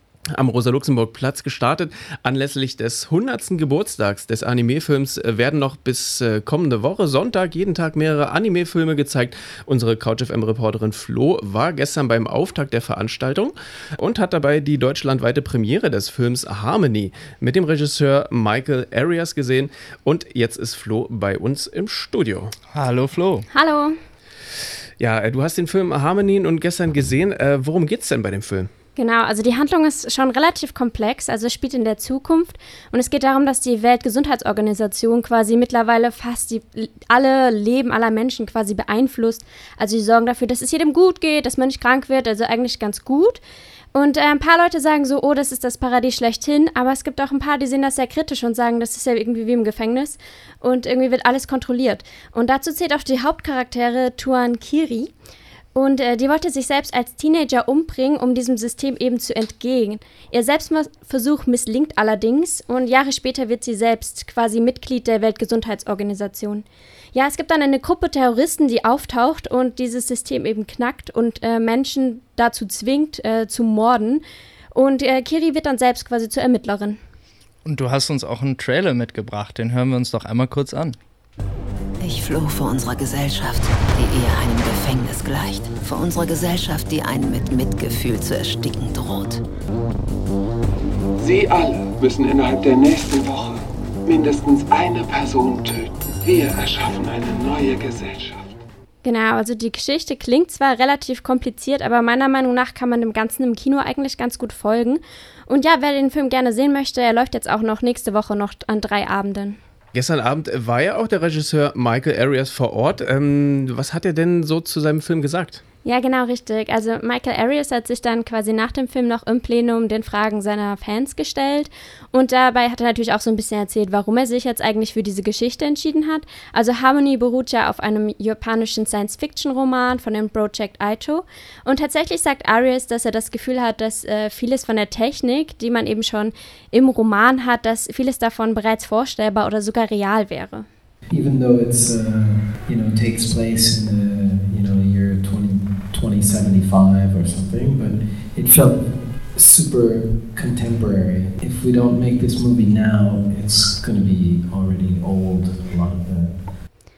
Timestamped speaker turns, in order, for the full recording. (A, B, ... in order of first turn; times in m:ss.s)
0:00.3-0:22.5 A
0:22.7-0:23.5 B
0:23.5-0:24.0 C
0:25.0-0:28.7 A
0:29.0-0:43.4 C
0:43.9-0:55.1 C
0:55.7-1:14.2 C
1:14.7-1:17.0 C
1:17.6-1:21.0 B
1:22.0-1:29.4 D
1:31.2-1:38.3 E
1:39.0-1:49.6 C
1:49.9-1:55.6 A
1:55.8-2:20.6 C
2:21.1-2:28.8 F
2:29.4-2:36.4 F